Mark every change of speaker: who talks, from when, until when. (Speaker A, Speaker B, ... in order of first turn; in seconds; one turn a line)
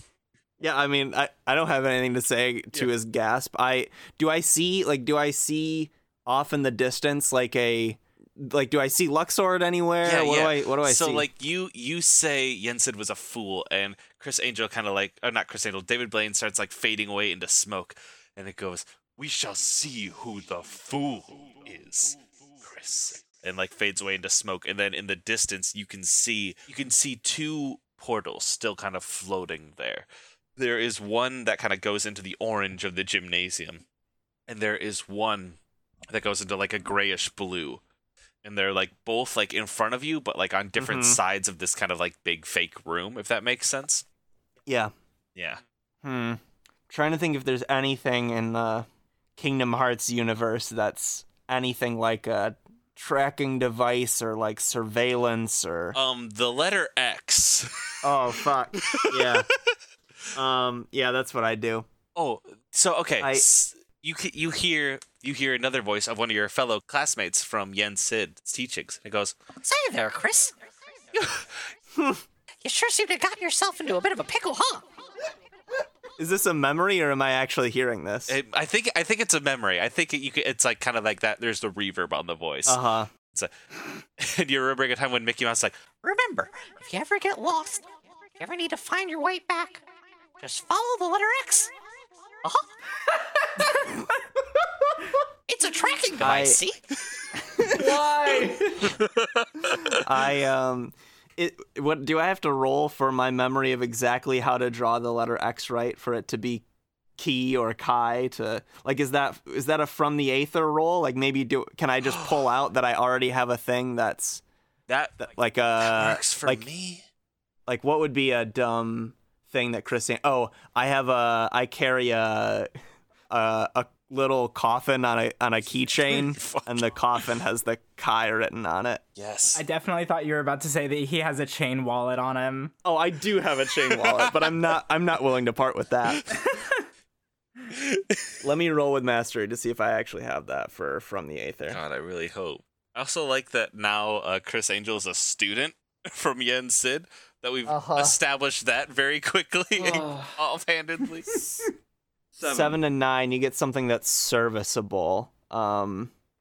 Speaker A: 0.6-11.3
Speaker B: 10.0-33.8
Speaker B: 34.5-35.6
Speaker B: 36.1-37.8
Speaker B: 38.4-44.0
Speaker A: 40.8-41.2
Speaker A: 44.7-44.9
Speaker B: 45.4-45.6
Speaker A: 46.0-56.0
Speaker B: 55.9-58.1
Speaker A: 58.0-59.5
Speaker B: 58.8-59.5
Speaker A: 60.3-61.9
Speaker B: 62.1-69.5
Speaker A: 63.2-63.5
Speaker C: 69.6-70.6
Speaker A: 71.9-72.2
Speaker C: 72.6-74.9
Speaker A: 76.2-78.4
Speaker B: 78.3-82.8
Speaker A: 82.7-83.1
Speaker B: 83.3-85.9
Speaker C: 86.0-89.8
Speaker C: 90.4-91.7
Speaker C: 92.4-92.7
Speaker C: 95.5-96.8
Speaker A: 96.2-96.6
Speaker A: 97.4-97.9
Speaker D: 97.6-99.0
Speaker B: 98.8-100.0
Speaker A: 99.9-106.6
Speaker A: 107.2-114.4
Speaker B: 112.0-112.3
Speaker B: 114.9-117.0
Speaker A: 115.2-116.6
Speaker A: 117.7-122.7
Speaker A: 123.3-129.0
Speaker B: 126.1-126.8
Speaker B: 129.2-129.6
Speaker E: 129.5-132.7
Speaker A: 132.8-136.3
Speaker B: 137.7-138.3
Speaker A: 138.4-141.8
Speaker B: 141.7-151.7
Speaker A: 147.7-148.2
Speaker D: 149.8-150.4
Speaker D: 152.3-152.8
Speaker A: 152.4-156.1